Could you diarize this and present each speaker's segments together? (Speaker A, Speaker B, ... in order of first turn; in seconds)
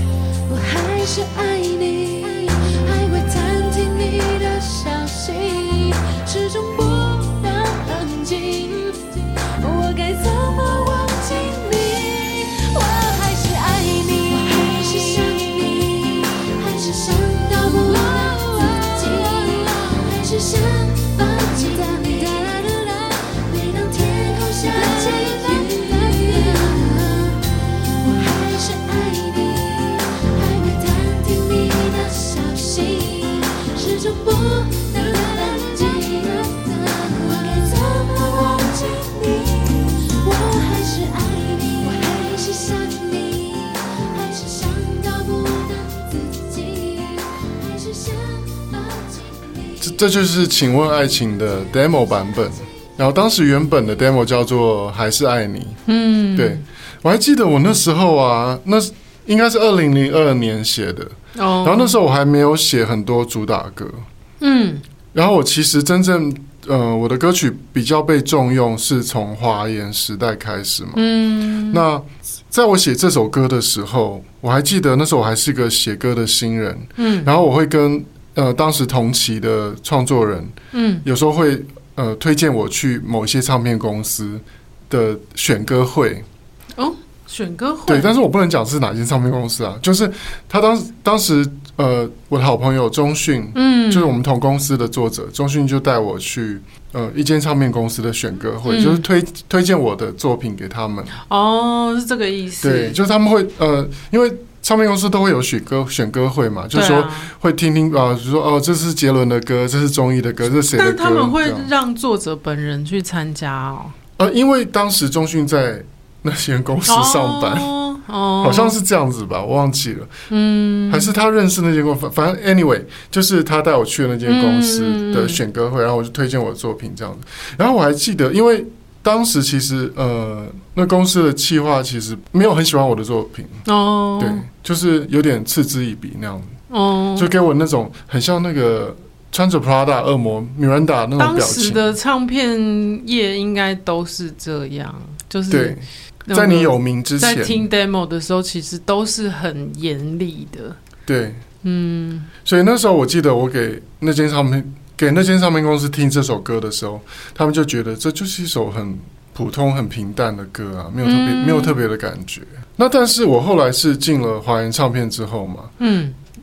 Speaker A: 0.5-27.4, 28.0-49.2
Speaker B: 17.6-19.9, 21.8-22.1, 24.7-27.0, 35.2-35.6, 55.9-56.6, 61.3-62.0, 64.4-64.8, 70.9-71.8, 77.0-77.3, 80.7-81.0, 86.8-88.1, 93.5-94.1, 98.7-99.0, 101.2-103.0, 106.7-107.3, 110.7-113.9, 116.9-118.8, 120.3-121.1, 124.2-125.4, 133.7-134.5, 136.7-137.3, 141.2-150.8, 151.6-152.3, 161.0-161.8, 165.8-166.2
Speaker C: 49.8-55.8, 56.4-64.0, 65.1-71.1, 71.7-86.2, 87.9-101.1, 102.6-111.7, 114.2-117.7, 118.4-120.1, 120.9-133.6, 134.2-136.6, 137.2-141.8, 145.5-147.7, 151.1-151.4, 152.4-165.7